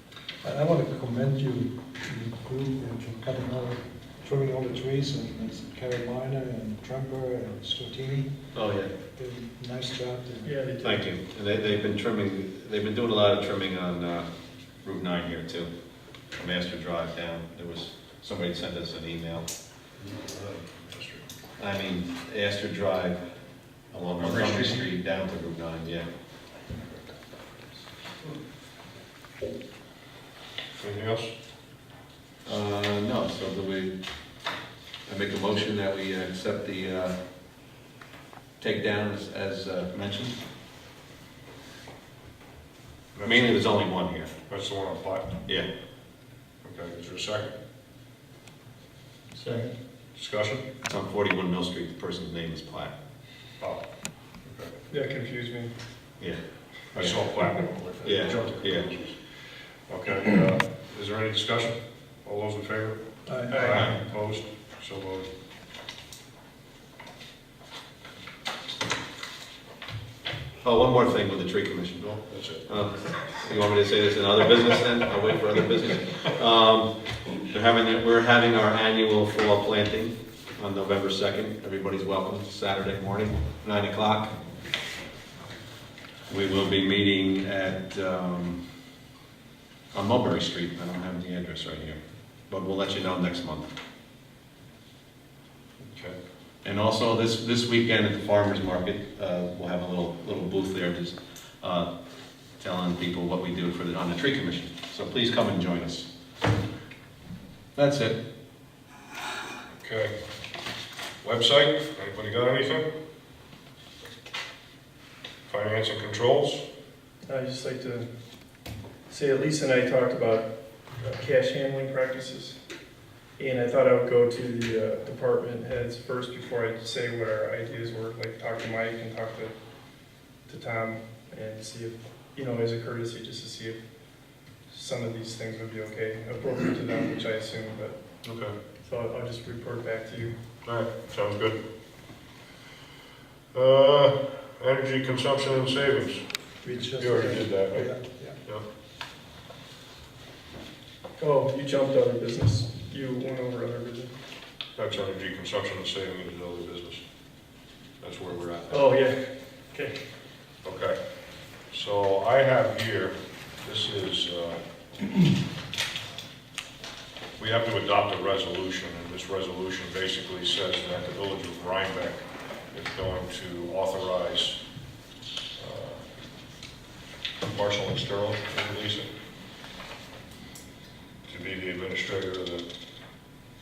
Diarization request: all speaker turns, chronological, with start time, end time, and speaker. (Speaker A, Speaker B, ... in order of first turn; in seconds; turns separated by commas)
Speaker A: 0.4-8.3, Speaker B: 8.5-8.9, Speaker A: 9.2-10.6, Speaker C: 10.4-11.0, Speaker B: 10.8-14.3, Speaker B: 14.8-15.7, Speaker B: 16.4-19.5, Speaker D: 20.0-21.2, Speaker B: 21.6-23.2, Speaker B: 23.9-26.1, Speaker D: 24.2-24.8, Speaker D: 30.7-31.3, Speaker B: 32.5-34.0, Speaker B: 35.1-37.2, Speaker B: 38.6-40.4, Speaker D: 43.1-43.6, Speaker B: 43.2-44.3, Speaker D: 44.5-45.4, Speaker D: 46.6-47.5, Speaker C: 49.4-49.7, Speaker D: 50.2-50.6, Speaker B: 50.9-52.9, Speaker D: 54.5-54.7, Speaker C: 54.9-55.7, Speaker B: 56.9-57.2, Speaker D: 56.9-59.3, Speaker B: 58.0-58.9, Speaker D: 59.9-65.3, Speaker A: 63.3-63.6, Speaker C: 63.5-63.8, Speaker B: 63.7-64.0, Speaker B: 70.6-84.3, Speaker D: 72.2-72.7, Speaker B: 86.3-88.6, Speaker B: 89.9-93.7, Speaker D: 95.8-96.2, Speaker B: 96.6-101.9, Speaker B: 102.6-106.1, Speaker B: 107.8-108.2, Speaker D: 109.8-110.1, Speaker D: 111.2-112.9, Speaker D: 115.5-116.6, Speaker C: 117.2-118.1, Speaker C: 119.1-122.6, Speaker C: 123.4-129.5, Speaker C: 130.5-133.8, Speaker C: 134.7-138.0, Speaker D: 138.2-138.5, Speaker C: 138.8-140.3, Speaker D: 140.7-141.6, Speaker D: 143.5-146.2, Speaker C: 146.6-147.5, Speaker A: 146.7-148.4, Speaker D: 147.0-148.6, Speaker C: 151.2-154.1, Speaker D: 154.8-157.0, Speaker D: 158.0-158.9, Speaker C: 158.7-160.0, Speaker D: 160.6-161.0, Speaker D: 161.7-164.6, Speaker D: 167.4-174.6, Speaker D: 175.6-176.0, Speaker D: 177.5-179.1, Speaker D: 181.3-182.7